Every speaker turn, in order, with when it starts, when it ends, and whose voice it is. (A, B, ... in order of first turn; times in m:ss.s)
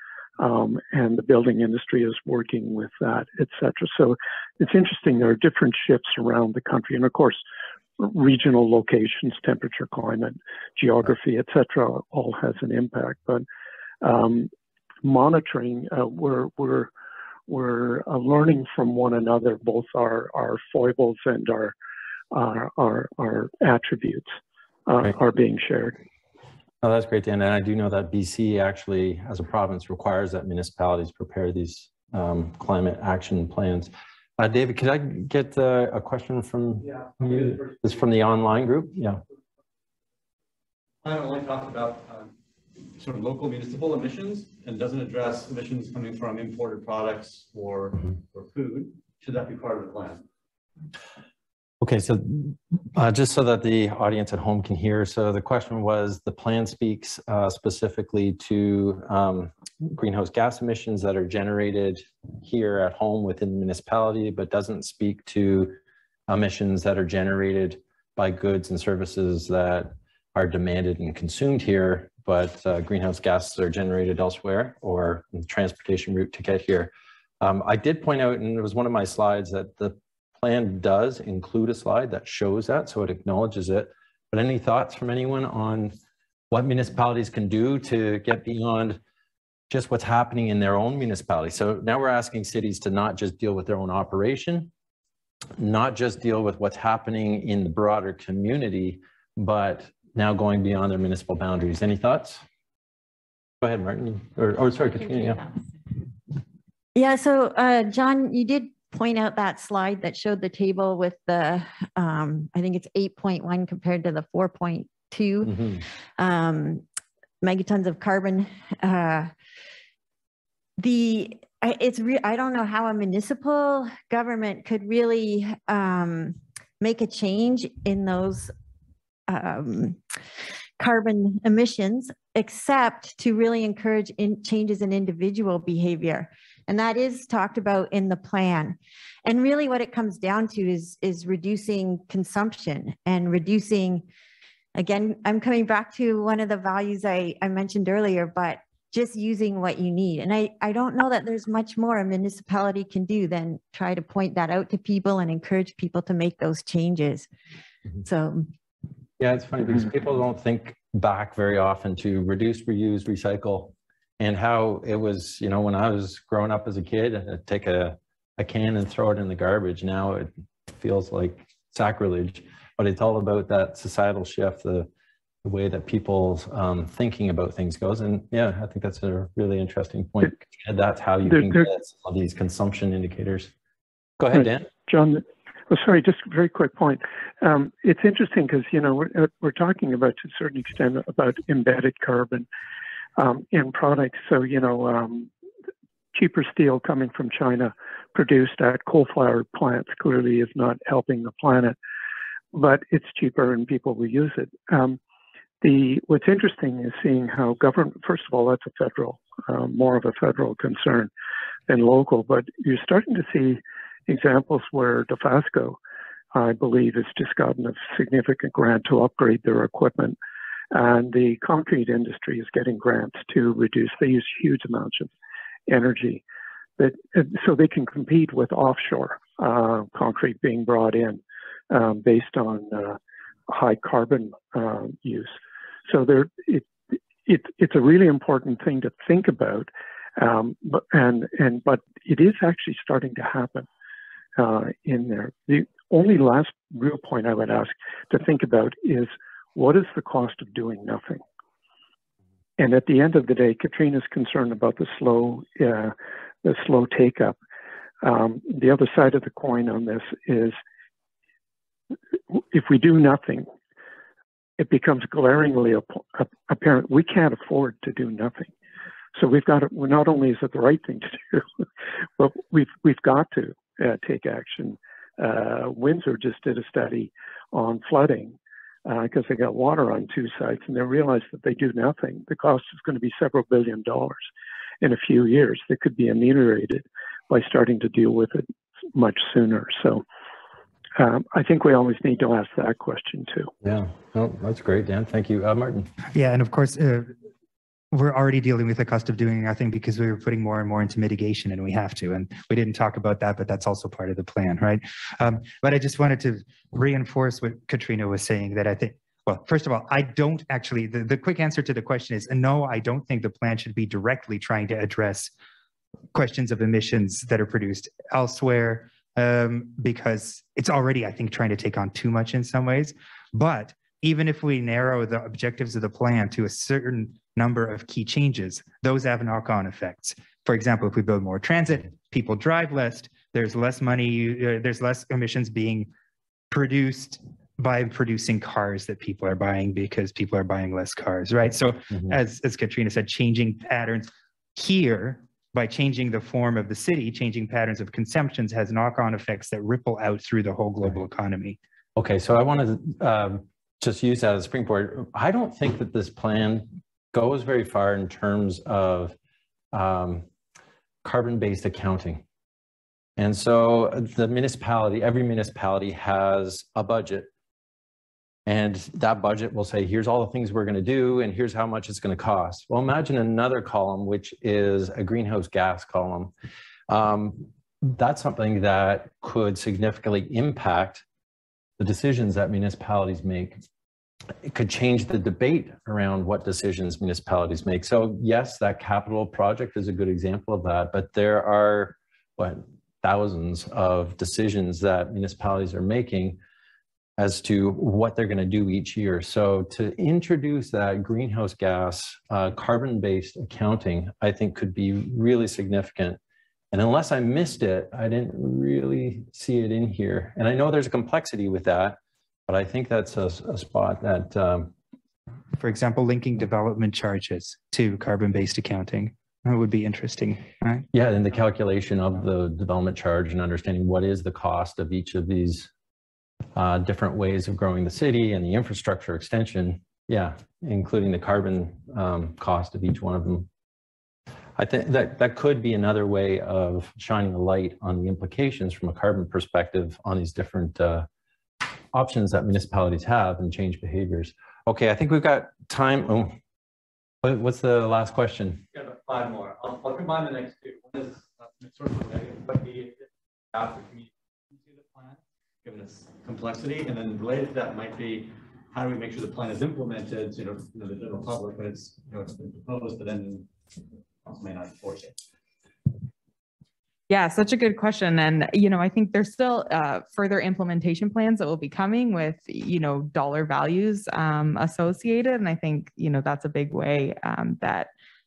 0:00.4-0:07.4 A
0:08.0-0:13.5 A
0:14.0-0:14.5 A
0:15.0-0:16.9 A
0:17.5-0:21.8 A
0:22.3-0:24.4 A
0:24.9-0:26.0 A
0:26.8-0:39.2 B
0:36.8-0:38.1 C
0:41.0-0:42.3 C
0:43.0-0:50.2 C
0:51.8-1:25.9 B
1:26.5-1:29.0 B
1:29.7-1:34.7 B
1:35.6-1:42.4 B
1:43.6-1:45.4 B
1:47.0-1:56.8 D
1:55.5-1:55.8 B
1:57.4-1:59.3 D
2:00.8-2:08.5 D
2:09.3-2:10.0 D
2:10.8-2:24.0 D
2:24.8-2:37.3 D
2:38.0-2:38.5 D
2:39.2-2:54.9 B
2:55.4-3:03.5 B
3:01.2-3:01.6 A
3:04.2-3:04.7 B
3:04.3-3:12.5 A
3:13.2-3:15.3 A
3:16.1-3:21.8 A
3:22.5-3:25.0 A
3:25.6-3:31.1 A
3:31.7-3:35.8 A
3:36.3-3:40.2 A
3:40.7-3:45.1 A
3:45.7-3:46.2 A
3:46.8-3:53.0 A
3:53.5-3:55.4 A
3:55.9-3:56.7 A
3:57.3-4:03.7 A
4:04.4-4:11.2 A
4:12.6-4:17.4 A
4:18.0-4:20.6 A
4:22.3-4:23.5 A
4:24.6-4:28.5 A
4:29.2-4:31.6 A
4:32.2-4:44.3 A
4:44.8-4:50.0 A
4:51.0-4:53.5 A
4:53.6-4:55.9 B
4:56.1-4:57.2 E
4:57.9-5:15.3 E
5:16.1-5:35.9 E
5:36.5-5:51.6 E
5:52.0-5:59.2 B
5:59.7-6:00.3 B
6:01.0-6:02.2 B
6:03.2-6:07.3 B
6:08.5-6:16.3 B
6:16.9-6:21.0 B
6:21.8-6:23.6 B
6:24.4-6:36.4 B
6:37.2-6:46.2 B
6:46.7-6:52.0 B
6:52.5-6:54.7 B
6:55.6-7:00.9 E
7:00.9-7:05.7 B
7:06.6-7:13.5 B
7:14.6-7:21.1 B
7:21.9-7:26.4 B
7:27.2-7:28.6 B
7:28.7-7:43.5 C
7:44.3-7:45.2 C
7:47.1-7:57.9 F